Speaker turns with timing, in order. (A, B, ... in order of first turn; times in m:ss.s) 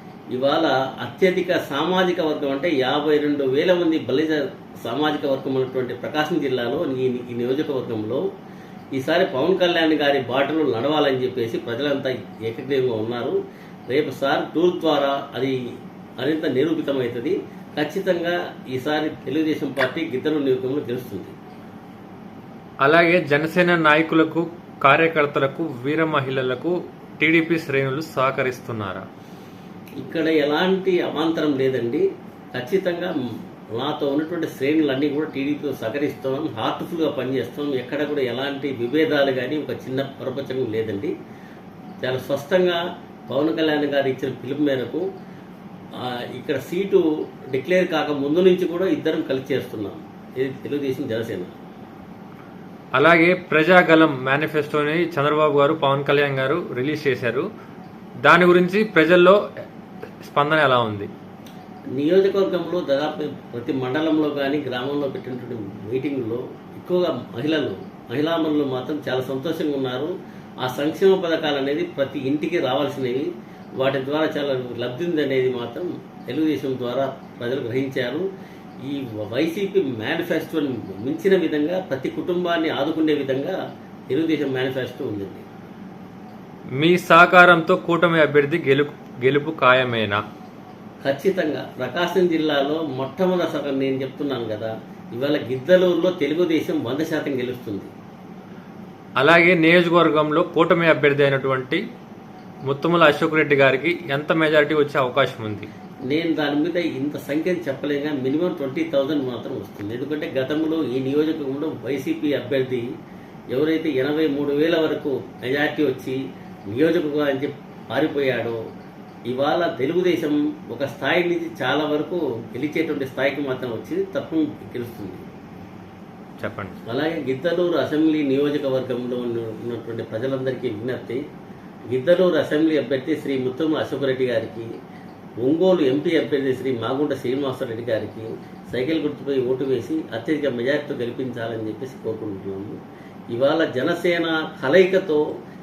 0:00.3-0:08.2 A
0:09.0-0:13.4 A
0:13.9-0:15.6 A
0:16.2-0:21.3 A
0:22.8-0:29.0 B
0:30.0-0:33.1 A
0:33.8-0:41.1 A
0:42.0-0:45.0 A
0:46.0-0:51.5 A
0:53.0-0:57.5 B
0:58.3-0:59.4 B
1:00.2-1:01.1 B
1:02.0-1:10.1 A
1:10.6-1:13.3 A
1:13.8-1:18.2 A
1:18.9-1:23.6 A
1:24.1-1:25.4 A
1:26.8-1:30.2 B
1:31.0-1:37.9 A
1:39.2-1:41.8 B
1:42.7-1:45.7 B
1:46.1-1:52.9 A
1:53.5-1:56.2 A
1:56.7-1:58.6 A
1:59.3-2:05.2 A
2:06.4-2:06.8 B
2:06.9-2:11.2 A
2:11.9-2:14.7 A
2:15.4-2:22.8 A
2:23.3-2:25.2 A